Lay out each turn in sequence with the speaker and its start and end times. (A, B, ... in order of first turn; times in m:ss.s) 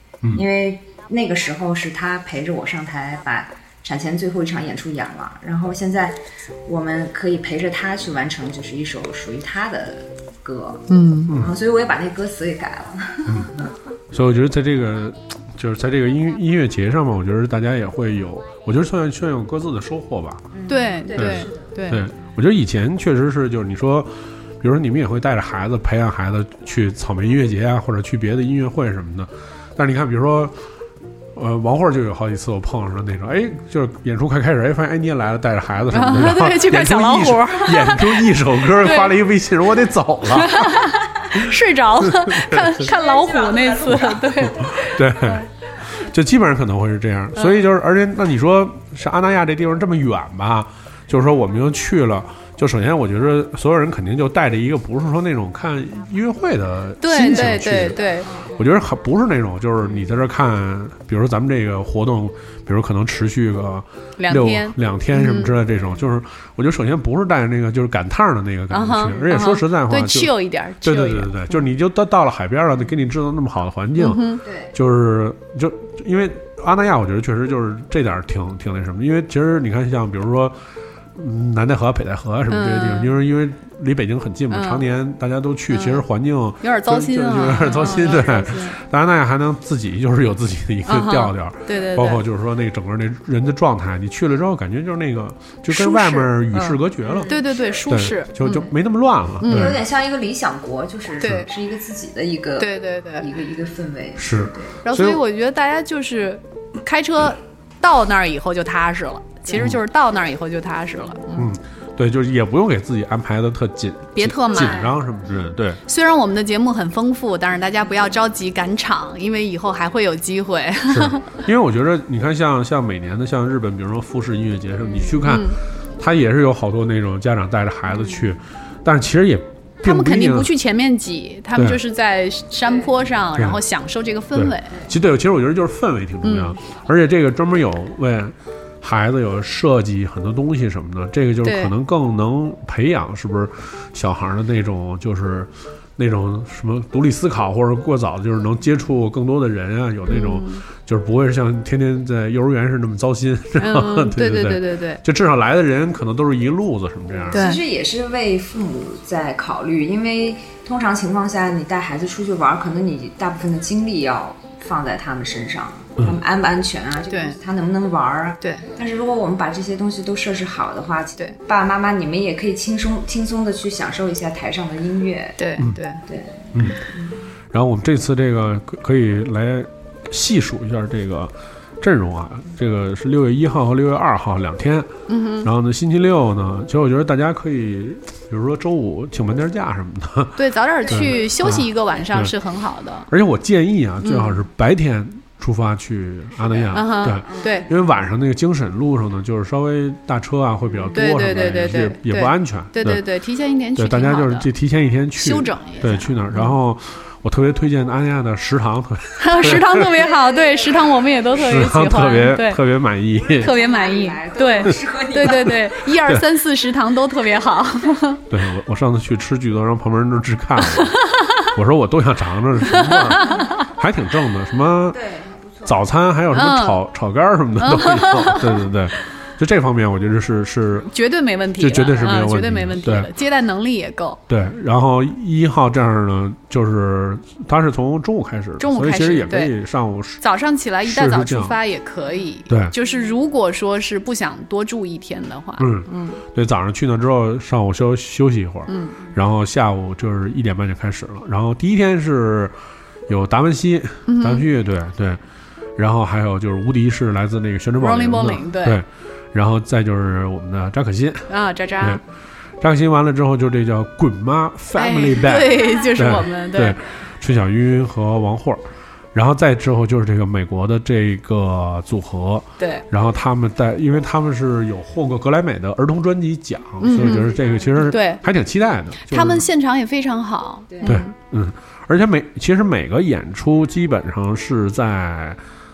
0:00.3-0:13.7 A
0:10.9-0:11.3 B
0:13.3-0:13.5 C
0:14.1-0:20.5 C
0:20.5-0:21.7 A
0:20.7-0:22.1 B
0:21.2-0:30.6 C
0:31.3-0:40.8 C
0:35.9-0:39.1 B
0:40.3-0:45.4 B
0:42.0-0:42.8 C
0:42.8-0:44.5 A
0:44.6-0:58.0 C
0:47.4-0:47.6 B
0:57.0-0:58.3 B
0:57.7-0:58.5 A
0:58.5-1:20.6 C
1:04.2-1:05.5 B
1:08.7-1:11.5 B
1:14.0-1:14.4 B
1:14.4-1:14.7 A
1:21.1-1:37.3 C
1:22.5-1:23.1 B
1:24.5-1:24.8 B
1:25.7-1:26.0 B
1:26.6-1:28.7 B
1:27.6-1:28.8 A
1:30.8-1:32.2 B
1:31.7-1:32.0 A
1:35.7-1:38.7 B
1:37.0-1:37.8 A
1:37.9-1:39.8 C
1:38.4-1:38.7 A
1:39.4-1:39.7 B
1:39.4-1:44.8 A
1:41.2-1:41.5 B
1:42.6-1:43.3 B
1:44.2-1:45.2 C
1:44.8-1:51.5 B
1:49.5-1:49.8 A
1:51.3-1:55.8 C
1:54.2-1:54.9 B
1:54.5-1:55.0 A
1:55.8-2:01.3 B
1:57.8-1:58.1 A
2:00.9-2:10.5 C
2:05.2-2:05.6 B
2:09.8-2:14.8 B
2:12.7-2:13.0 A
2:14.3-2:37.4 C
2:16.2-2:16.6 B
2:21.4-2:21.7 B
2:30.1-2:30.6 B
2:33.6-2:35.0 B
2:37.1-2:55.4 A
2:37.3-2:37.6 B
2:47.1-2:47.4 B
2:55.4-2:56.0 B
2:56.0-2:57.2 A
2:57.5-3:04.9 C
3:05.1-3:05.5 B
3:05.4-3:12.3 C
3:10.4-3:13.1 B
3:10.8-3:12.0 A
3:13.1-3:23.0 C
3:14.0-3:14.4 B
3:16.4-3:17.9 A
3:16.7-3:17.7 B
3:20.7-3:21.0 A
3:20.9-3:24.5 B
3:23.8-3:29.9 C
3:25.2-3:26.5 B
3:29.2-3:32.6 B
3:29.4-3:31.2 A
3:31.3-3:33.5 C
3:33.1-3:35.7 A
3:33.4-3:38.2 B
3:37.4-3:37.7 A
3:38.3-3:41.0 C
3:40.6-3:41.5 B
3:41.5-3:45.0 C
3:42.7-3:43.5 B
3:44.9-3:45.8 A
3:45.6-3:50.9 C
3:46.3-3:46.8 B
3:47.6-3:48.6 B
3:50.9-3:54.2 B
3:51.6-3:53.1 C
3:54.3-4:00.2 C
3:58.6-3:59.5 B
4:00.2-4:06.2 B
4:00.8-4:01.6 C
4:02.5-4:02.7 C
4:05.6-4:12.5 C
4:08.7-4:09.0 B
4:13.1-4:15.2 C
4:14.1-4:14.4 B
4:15.8-4:21.3 C
4:17.8-4:18.8 B
4:21.3-4:22.0 B
4:22.6-4:39.4 C
4:24.8-4:26.8 B
4:32.6-4:32.8 B
4:36.8-4:38.2 B
4:37.0-4:37.8 A
4:39.1-4:41.1 B
4:40.7-4:41.0 A
4:40.8-4:45.4 C